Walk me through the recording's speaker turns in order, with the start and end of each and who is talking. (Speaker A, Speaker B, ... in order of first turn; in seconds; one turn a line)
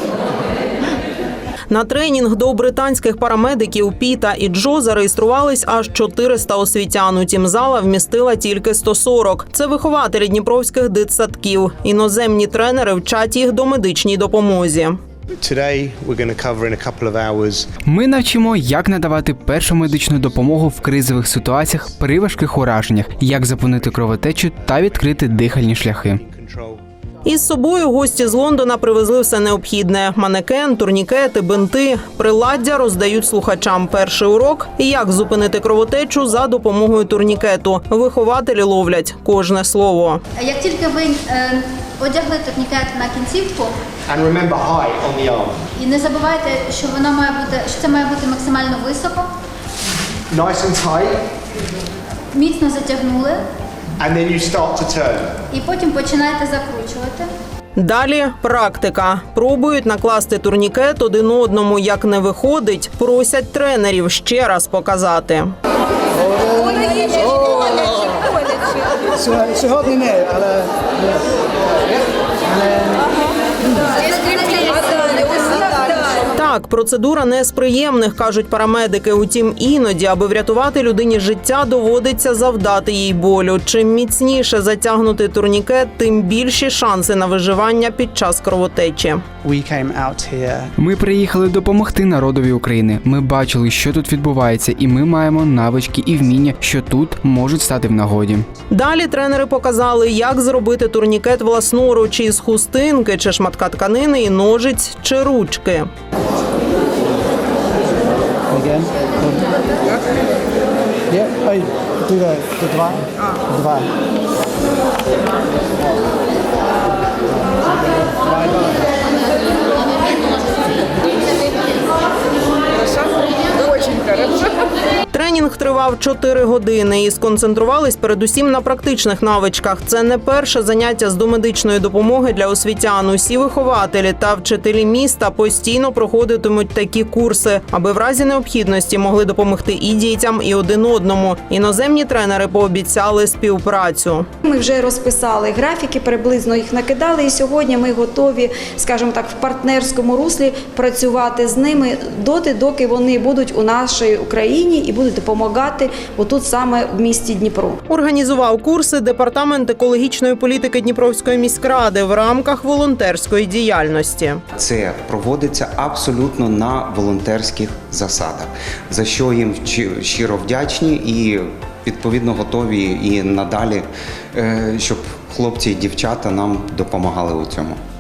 Speaker A: 1.7-15.0
Speaker B: 15.4-17.7
Speaker C: 17.9-26.2
Speaker B: 26.2-26.8
Speaker A: 27.2-40.2
Speaker D: 40.4-43.7
Speaker B: 44.1-45.7
Speaker D: 45.8-49.3
Speaker B: 50.3-51.3
Speaker D: 52.3-53.4
Speaker B: 54.0-55.4
Speaker D: 55.5-57.3
Speaker A: 57.8-65.5
Speaker E: 69.4-70.6
Speaker D: 74.7-75.2
Speaker A: 76.3-89.2
Speaker E: 89.4-90.7
Speaker C: 90.8-98.5
Speaker A: 98.7-105.9
Speaker E: 108.5-109.5
Speaker E: 111.1-113.9
Speaker E: 118.1-118.8
Speaker A: 125.1-144.3
Speaker F: 144.5-157.8
Speaker A: 157.9-164.4
Speaker G: 164.6-177.8